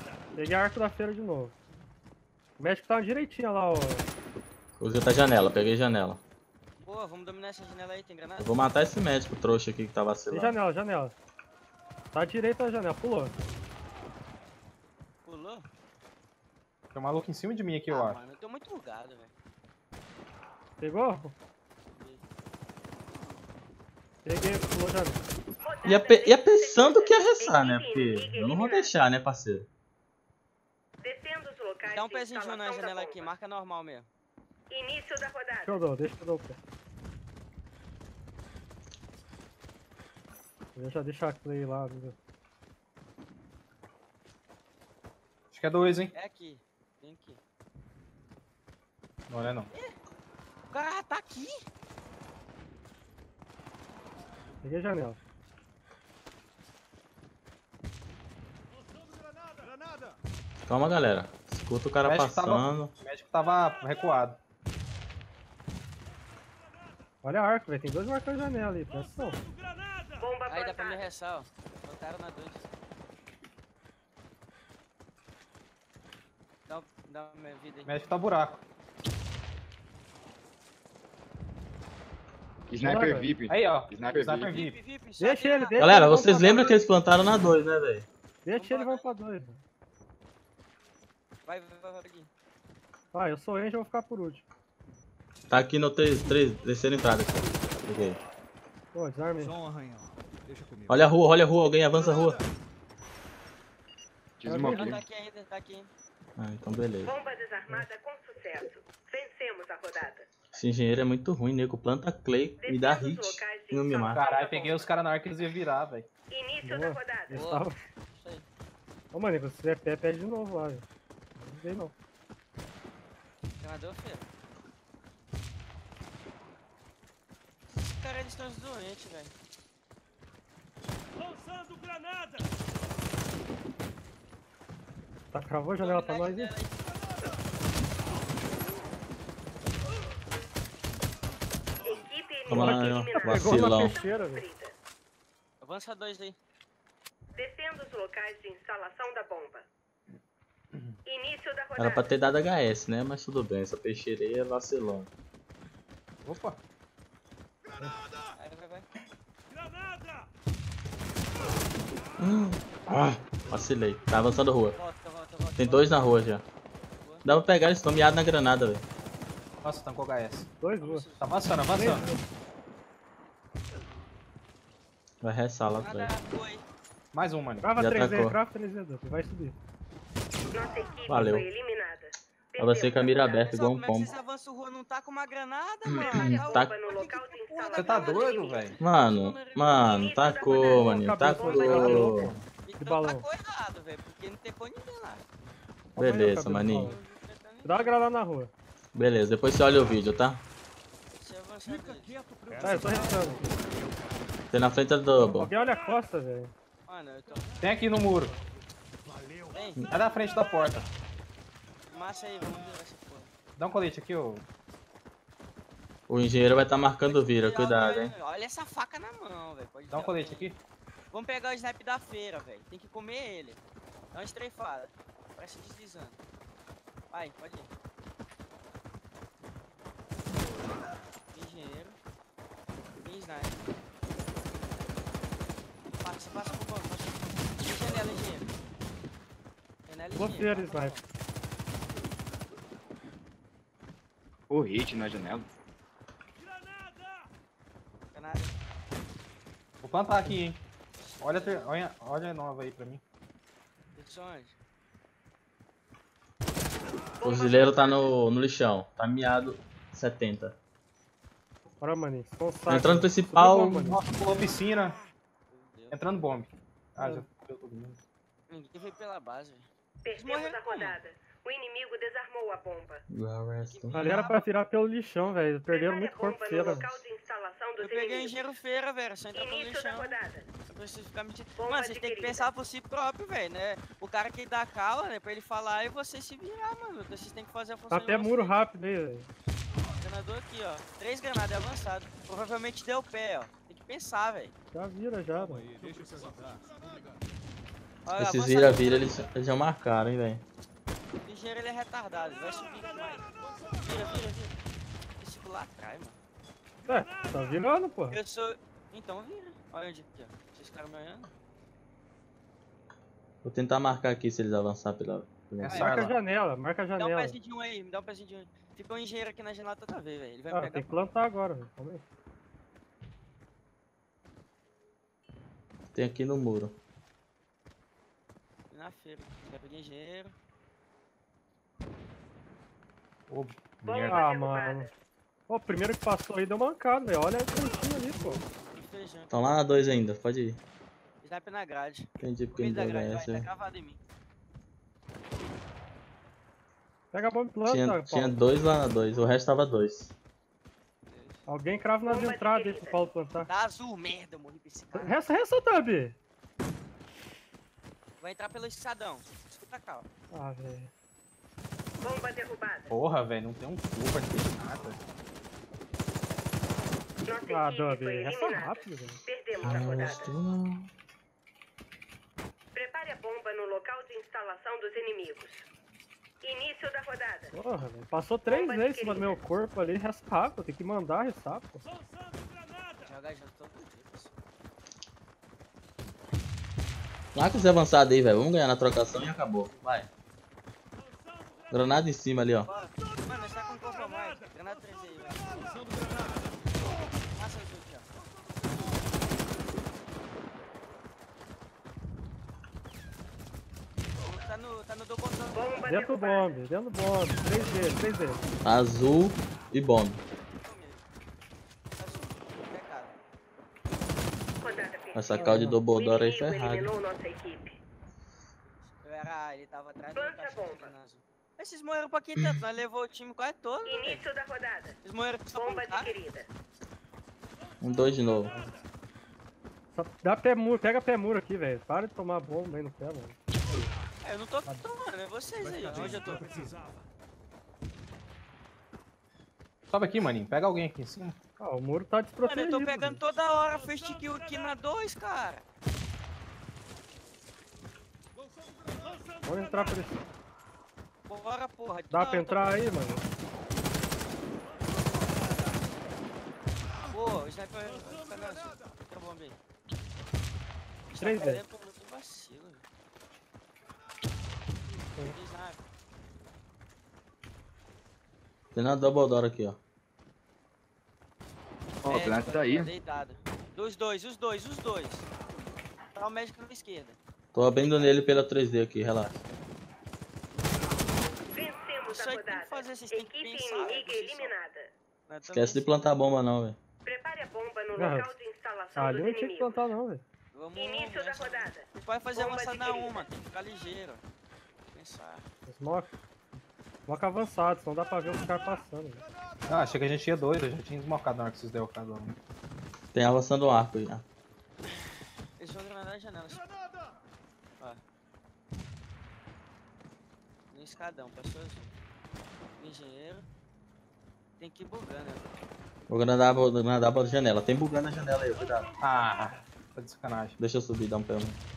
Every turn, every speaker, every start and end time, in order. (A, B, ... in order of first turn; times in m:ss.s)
0:00.3-0:01.5 A
0:02.6-0:04.1 A
0:04.8-0:06.2 B
0:06.8-0:08.5 C
0:08.4-0:10.6 B
0:10.3-0:11.1 A
0:12.1-0:13.4 A
0:15.2-0:15.7 C
0:16.9-0:18.2 D
0:17.9-0:19.3 C
0:20.8-0:21.3 A
0:21.9-0:22.2 C
0:24.2-0:25.2 A
0:25.6-0:28.9 E
0:25.8-0:29.7 B
0:31.0-0:33.3 E
0:31.8-0:34.1 C
0:34.7-0:35.8 E
0:35.6-0:36.6 A
0:40.8-0:42.2 A
0:45.5-0:46.1 D
0:46.1-0:47.4 C
0:49.3-0:49.7 D
0:50.7-0:51.6 C
0:54.6-0:55.2 A
1:00.7-1:02.9 B
1:02.0-1:04.4 D
1:07.2-1:09.4 A
1:10.2-1:11.1 E
1:10.5-1:12.6 C
1:16.7-1:17.9 C
1:17.8-1:18.6 D
1:22.7-1:24.6 F
1:22.8-1:23.3 A
1:23.5-1:24.8 D
1:24.4-1:25.9 C
1:25.2-1:26.8 A
1:25.8-1:28.0 B
1:28.4-1:29.6 A
1:28.5-1:29.1 C
1:31.4-1:32.3 C
1:33.1-1:34.4 A
1:35.5-1:38.2 B
1:38.9-1:39.6 A
1:39.4-1:41.0 G
1:40.9-1:42.4 B
1:44.4-1:45.0 F
1:44.4-1:45.0 A
1:44.7-1:45.9 C
1:46.4-1:47.1 B
1:47.0-1:50.3 E
1:50.5-1:54.2 B
1:52.6-1:54.8 E
1:54.1-1:56.1 D
1:56.3-1:57.4 E
1:56.6-1:57.8 A
1:57.3-1:58.4 C
1:59.1-2:00.8 A
2:01.4-2:01.9 A
2:03.6-2:04.3 C
2:07.7-2:09.3 C
2:15.3-2:16.5 A
2:15.8-2:17.4 C
2:21.8-2:24.7 E
2:22.5-2:24.0 B
2:22.5-2:24.4 A
2:25.6-2:26.4 C
2:27.3-2:29.6 E
2:31.0-2:32.1 E
2:31.8-2:35.1 B
2:36.2-2:36.6 D
2:38.3-2:38.9 C
2:42.2-2:44.8 B
2:44.7-2:46.1 C
2:45.6-2:46.4 B
2:47.2-2:48.8 B
2:49.6-2:50.5 D
2:50.6-2:51.1 A
2:50.8-2:51.4 C
2:51.2-2:52.1 D
2:51.7-2:52.2 A
2:55.2-2:56.1 B
2:55.8-2:56.6 C
2:57.1-2:57.7 D
2:57.6-2:59.6 A
2:57.8-2:58.4 B
3:00.5-3:03.4 E
3:01.1-3:01.4 B
3:02.6-3:04.2 B
3:03.3-3:10.1 C
3:05.9-3:06.7 B
3:05.9-3:08.7 E
3:07.7-3:08.8 D
3:08.8-3:12.3 B
3:09.8-3:12.3 E
3:10.7-3:12.2 A
3:11.7-3:12.4 D
3:12.6-3:15.2 C
3:12.8-3:13.2 A
3:16.0-3:16.9 B
3:16.0-3:17.0 A
3:16.7-3:18.0 C
3:17.6-3:18.5 A
3:18.9-3:20.4 B
3:21.2-3:23.1 C
3:22.0-3:23.4 G
3:22.6-3:23.6 A
3:24.5-3:25.5 B
3:25.2-3:26.5 A
3:26.9-3:27.5 C
3:27.6-3:28.4 D
3:29.5-3:29.8 C
3:29.9-3:30.9 D
3:31.9-3:33.3 C
3:33.6-3:34.4 D
3:36.1-3:38.1 B
3:37.0-3:40.5 C
3:39.9-3:40.6 D
3:41.1-3:43.6 C
3:44.1-3:46.2 C
3:47.1-3:47.7 C
3:51.3-3:52.0 C
3:53.0-3:53.6 C
3:56.0-3:58.5 C
3:59.9-4:01.0 C
4:00.2-4:01.0 A
4:04.5-4:05.5 F
4:08.1-4:08.6 C
4:09.8-4:10.6 D
4:11.2-4:11.6 C
4:11.2-4:13.0 D
4:14.0-4:14.6 C
4:17.2-4:18.1 E
4:17.2-4:20.6 B
4:21.8-4:24.0 A
4:22.7-4:23.9 B
4:23.8-4:25.0 D
4:25.5-4:26.0 C
4:25.9-4:28.0 D
4:27.0-4:27.2 A
4:28.5-4:31.0 C
4:30.0-4:33.0 E
4:33.1-4:34.2 B
4:33.7-4:34.3 C
4:33.9-4:36.9 A
4:35.7-4:38.5 E
4:37.8-4:48.6 C
4:39.3-4:40.5 E
4:41.6-4:42.5 E
4:47.9-4:49.3 A
4:50.0-4:54.5 C
4:54.7-4:55.6 A
4:55.5-4:57.1 G
4:58.0-4:59.1 C
4:58.2-5:00.4 B
5:01.2-5:04.6 C
5:05.2-5:06.2 C
5:06.8-5:08.2 A
5:08.1-5:11.3 C
5:13.4-5:16.0 B
5:15.6-5:16.1 D
5:15.7-5:17.3 A
5:17.0-5:20.9 C
5:20.5-5:22.0 A
5:25.9-5:26.8 B
5:28.7-5:30.3 C
5:33.3-5:34.3 D
5:33.8-5:34.9 E
5:34.1-5:34.9 A
5:35.5-5:38.4 A
5:38.7-5:39.6 C
5:39.3-5:40.6 B
5:41.2-5:44.0 C
5:42.2-5:43.5 B
5:47.1-5:48.4 A
5:47.6-5:50.1 B
5:51.0-5:51.4 C
5:51.5-5:53.5 A
5:52.1-5:53.0 E
5:53.5-5:55.3 C
5:54.9-5:56.2 A
5:58.2-6:00.0 C
6:00.3-6:00.9 A
6:02.0-6:02.9 E
6:02.9-6:05.0 D
6:07.2-6:10.3 E
6:07.5-6:09.2 A
6:09.6-6:10.9 B
6:12.7-6:15.6 E
6:16.4-6:17.5 E
6:17.5-6:21.8 A
6:18.5-6:19.4 E
6:23.0-6:24.3 C
6:27.3-6:30.1 B
6:31.7-6:32.7 B
6:32.6-6:36.0 C
6:37.2-6:38.1 C
6:44.2-6:45.9 C
6:45.5-6:46.6 E
6:45.9-6:48.4 A
6:48.6-6:50.2 B
6:50.6-6:51.0 C
6:52.0-6:53.1 C
6:54.6-6:57.8 E
6:55.1-6:56.9 B
6:55.4-6:55.8 A
6:58.7-7:04.3 C
7:00.1-7:00.9 E
7:03.8-7:05.0 E
7:05.0-7:06.2 C
7:05.5-7:06.5 E
7:07.8-7:08.5 B
7:09.9-7:13.9 A
7:14.2-7:16.7 C
7:15.6-7:17.0 G
7:19.9-7:21.4 D
7:21.6-7:23.2 A
7:22.4-7:25.6 C
7:29.4-7:30.2 A
7:31.3-7:33.2 C
7:32.1-7:33.2 A
7:37.1-7:39.6 C
7:41.1-7:42.8 C
7:41.2-7:41.6 A
7:45.2-7:45.8 C
7:48.7-7:49.8 B
7:52.0-7:52.9 F
7:52.0-7:55.3 C
7:56.1-7:57.2 C
7:57.5-7:59.4 B
7:57.8-7:58.1 C
8:01.5-8:04.9 E
8:02.1-8:04.5 C
8:05.3-8:05.8 C
8:05.5-8:06.8 B
8:07.0-8:09.9 E
8:08.0-8:08.3 A
8:08.9-8:10.2 A
8:10.5-8:14.2 C
8:10.8-8:13.3 E
8:14.9-8:15.4 C
8:15.7-8:16.1 A
8:17.0-8:19.2 A
8:19.7-8:22.4 D
8:23.1-8:24.2 B
8:25.6-8:26.7 C
8:30.7-8:31.9 C
8:32.8-8:33.4 C
8:34.6-8:35.5 C
8:36.1-8:38.9 B
8:39.0-8:40.6 D
8:40.6-8:41.6 B